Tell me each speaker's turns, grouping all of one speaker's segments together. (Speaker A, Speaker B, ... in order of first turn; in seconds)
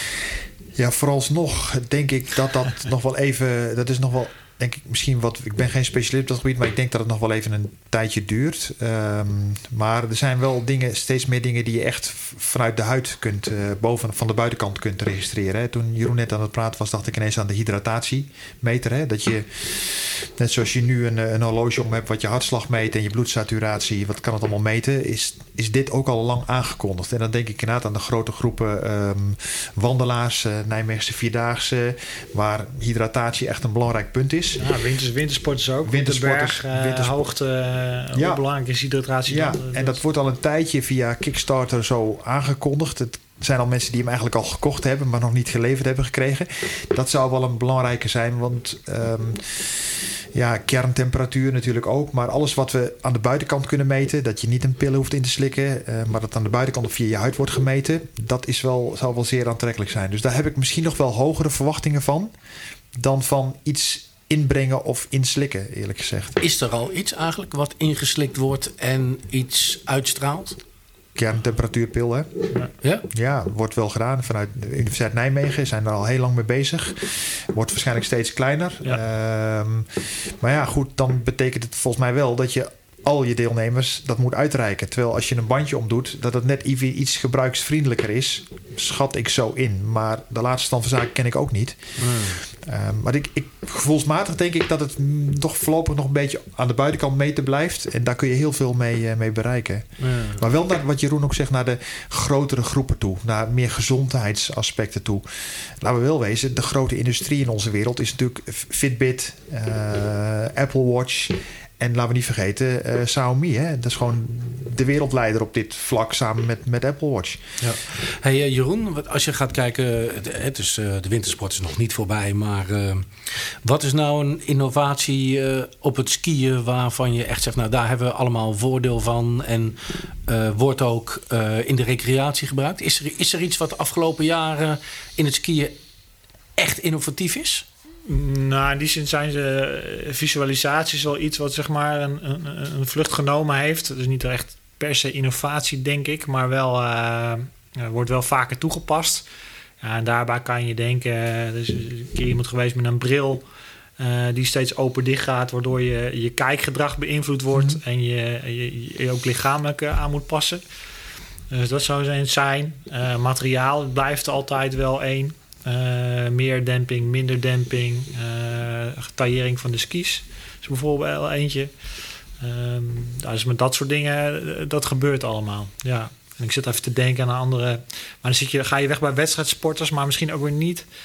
Speaker A: 0.8-34.6, 35.9-37.2, 38.1-38.4, 39.3-62.3, 63.0-66.4, 71.2-72.5, 73.1-91.9, 92.4-117.4
Speaker B: 34.6-40.0, 138.1-149.2, 149.8-153.4, 154.0-160.6, 161.5-171.7, 172.4-180.9
Speaker C: 66.4-70.6, 72.8-73.1, 92.0-92.4, 100.0-100.4, 117.6-135.7, 136.6-137.6